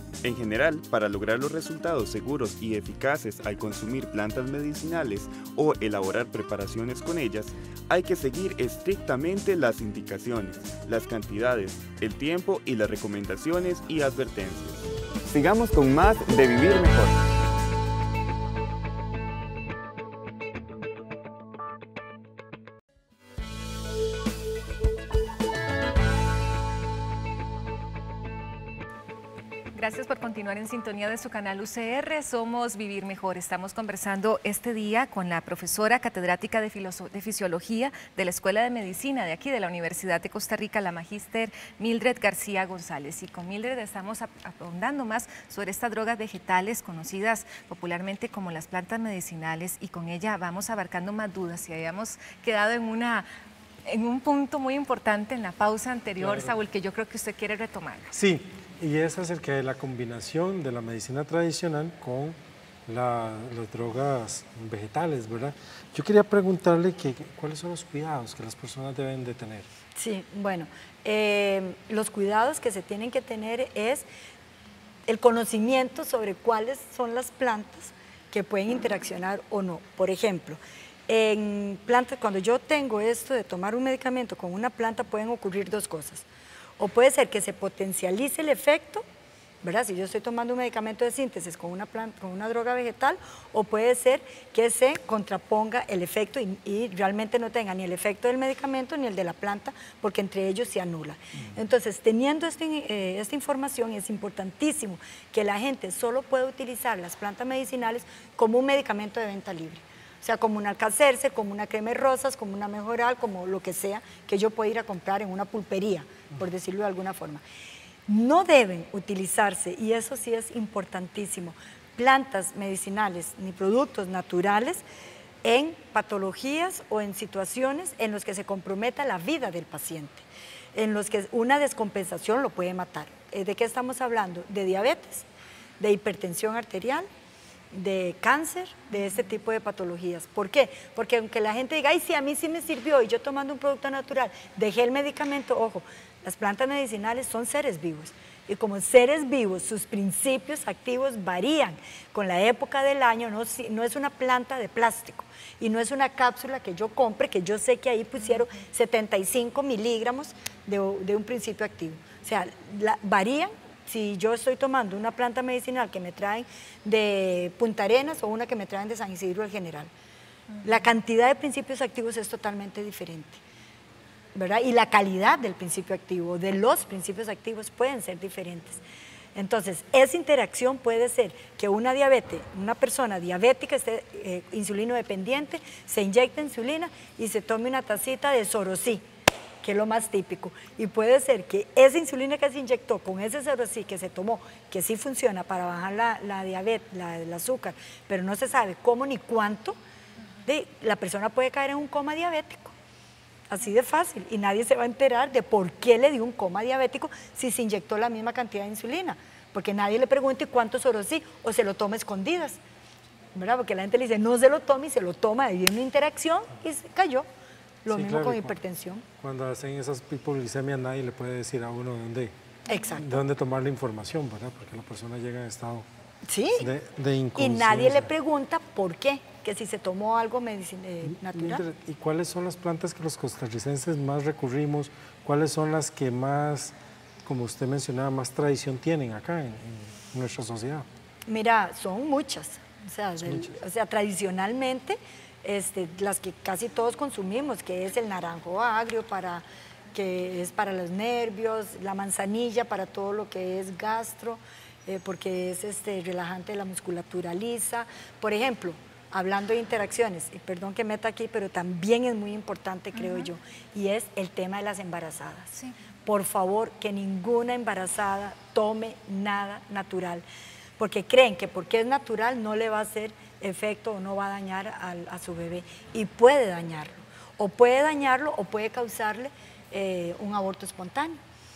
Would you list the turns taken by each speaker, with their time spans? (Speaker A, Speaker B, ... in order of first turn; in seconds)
Speaker A: 0.2-17.3
Speaker B: 29.7-53.3, 53.9-58.1
Speaker C: 56.2-56.5, 58.1-69.7, 217.9-218.6, 219.2-222.3, 223.0-225.9, 226.6-228.1, 231.1-240.9, 243.2-243.6
Speaker D: 70.0-74.1, 75.1-86.3, 86.8-89.0, 89.6-117.4, 118.1-124.8, 125.4-135.3, 135.8-137.1, 137.7-169.9, 170.6-173.4, 174.3-178.8, 179.3-189.1, 189.6-199.8, 200.5-202.8, 203.5-212.6, 213.3-217.3, 217.8-219.1, 222.7-223.2, 226.3-226.7, 227.4-231.6, 241.3-270.2, 270.8-281.2